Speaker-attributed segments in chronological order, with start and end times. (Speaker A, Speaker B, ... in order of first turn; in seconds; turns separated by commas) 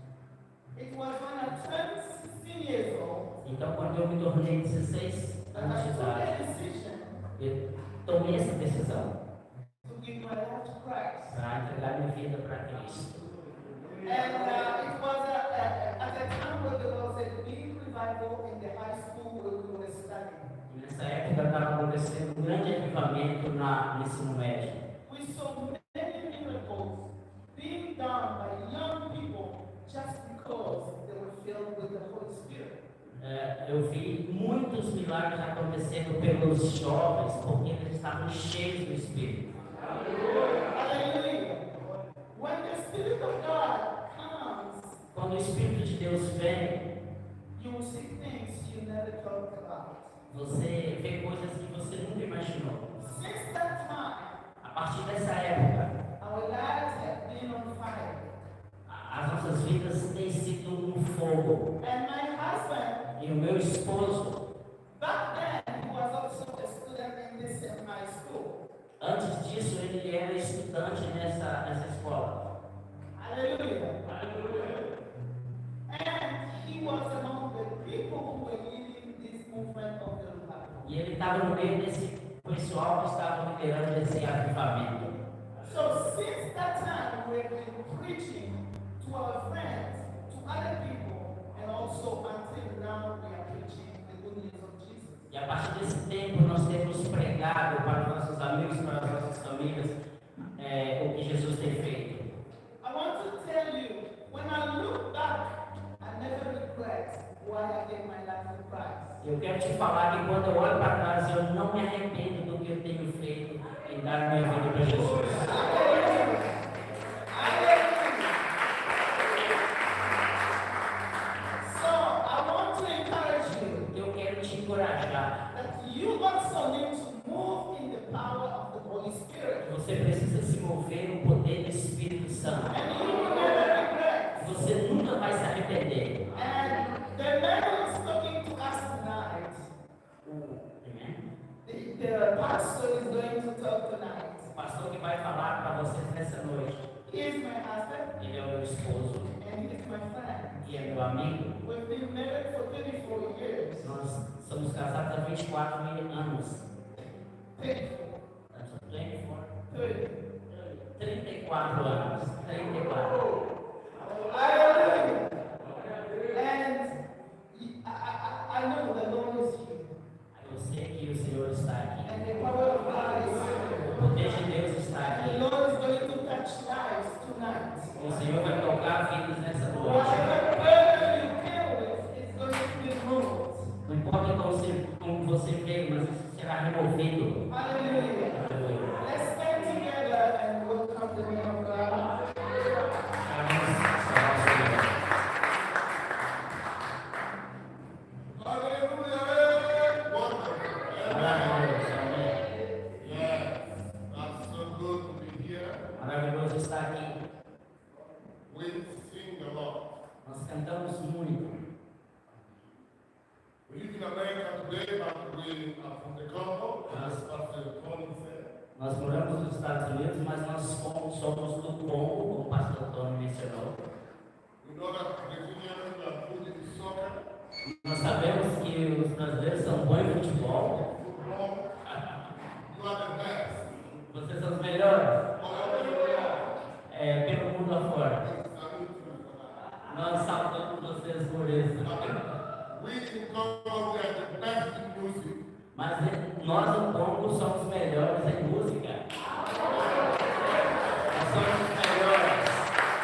Speaker A: 0.8-3.3, Speaker B: 3.4-6.3, Speaker A: 5.5-7.1, Speaker B: 7.4-9.1, Speaker A: 9.8-11.4, Speaker B: 11.3-13.1, Speaker A: 14.0-20.4, Speaker B: 20.7-24.8, Speaker A: 25.1-32.8, Speaker B: 33.2-39.5, Speaker A: 40.0-41.6, Speaker A: 42.3-45.0, Speaker B: 45.1-46.8, Speaker A: 47.5-50.1, Speaker B: 50.3-53.1, Speaker A: 53.0-54.4, Speaker B: 54.6-56.0, Speaker A: 56.2-58.3, Speaker B: 58.9-61.7, Speaker A: 61.8-63.0, Speaker B: 63.1-64.4, Speaker A: 65.0-68.5, Speaker B: 69.0-72.4, Speaker A: 73.2-74.8, Speaker A: 75.9-80.9, Speaker B: 80.8-85.1, Speaker A: 85.6-95.3, Speaker B: 95.3-100.0, Speaker B: 100.6-102.2, Speaker A: 102.8-105.5, Speaker A: 106.0-109.2, Speaker B: 109.2-115.7, Speaker C: 114.8-115.5, Speaker A: 115.3-116.7, Speaker A: 117.3-118.4, Speaker A: 121.6-123.9, Speaker B: 123.9-125.3, Speaker A: 125.5-129.7, Speaker B: 129.6-132.8, Speaker A: 132.7-134.6, Speaker B: 134.4-136.2, Speaker A: 136.3-139.7, Speaker B: 140.2-141.2, Speaker A: 141.6-144.5, Speaker B: 144.5-146.8, Speaker A: 147.1-148.1, Speaker B: 148.2-149.3, Speaker A: 149.4-150.9, Speaker B: 150.6-151.6, Speaker A: 151.6-153.9, Speaker B: 153.8-156.7, Speaker A: 157.6-158.2, Speaker B: 158.5-159.5, Speaker A: 159.7-160.2, Speaker B: 160.5-163.2, Speaker A: 164.2-165.3, Speaker A: 166.2-169.9, Speaker B: 170.3-172.2, Speaker A: 172.1-174.4, Speaker B: 173.9-175.4, Speaker A: 174.9-178.0, Speaker B: 178.0-180.4, Speaker A: 179.7-183.7, Speaker B: 183.8-187.4, Speaker A: 187.5-188.4, Speaker B: 188.3-189.0, Speaker A: 189.0-192.1, Speaker B: 193.2-194.9, Speaker C: 198.3-201.7, Speaker B: 201.1-202.4, Speaker C: 203.0-205.8, Speaker B: 206.0-207.2, Speaker C: 208.5-209.8, Speaker B: 210.2-211.6, Speaker C: 213.7-218.5, Speaker B: 216.9-217.2, Speaker B: 218.8-223.8, Speaker C: 224.6-227.2, Speaker B: 227.8-230.8, Speaker C: 230.7-231.7, Speaker B: 231.9-232.1, Speaker C: 232.7-233.7, Speaker B: 234.1-235.3, Speaker C: 235.4-236.4, Speaker B: 236.9-238.2, Speaker C: 238.2-239.6, Speaker B: 239.9-242.2, Speaker C: 241.8-245.4, Speaker B: 245.8-249.0, Speaker B: 251.1-252.7